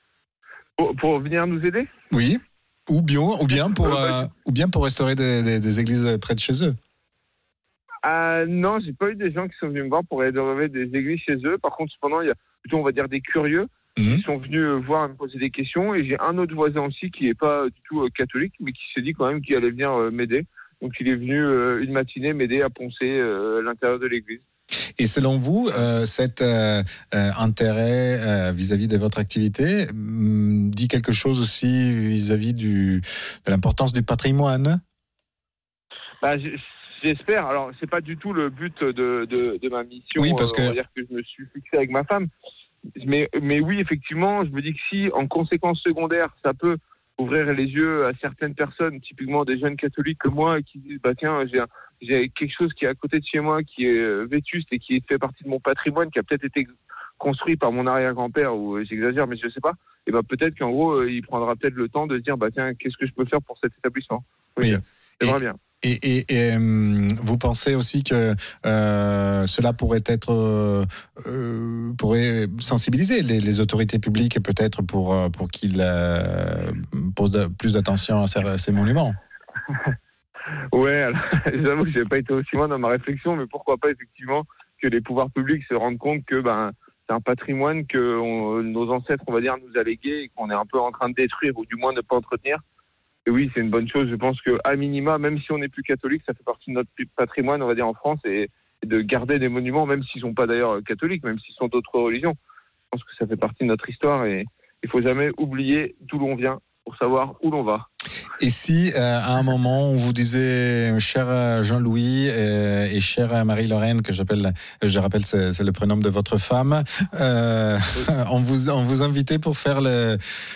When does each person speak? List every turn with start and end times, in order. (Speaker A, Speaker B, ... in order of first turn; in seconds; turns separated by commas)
Speaker A: 0.8-1.9, Speaker B: 2.1-6.7, Speaker A: 3.8-4.1, Speaker A: 8.0-24.4, Speaker B: 14.0-14.2, Speaker B: 25.0-34.8, Speaker A: 36.2-42.3, Speaker B: 40.2-40.8, Speaker A: 43.0-65.6, Speaker B: 64.6-79.2, Speaker A: 80.7-92.6, Speaker A: 93.2-102.3, Speaker A: 102.9-107.9, Speaker B: 108.4-120.2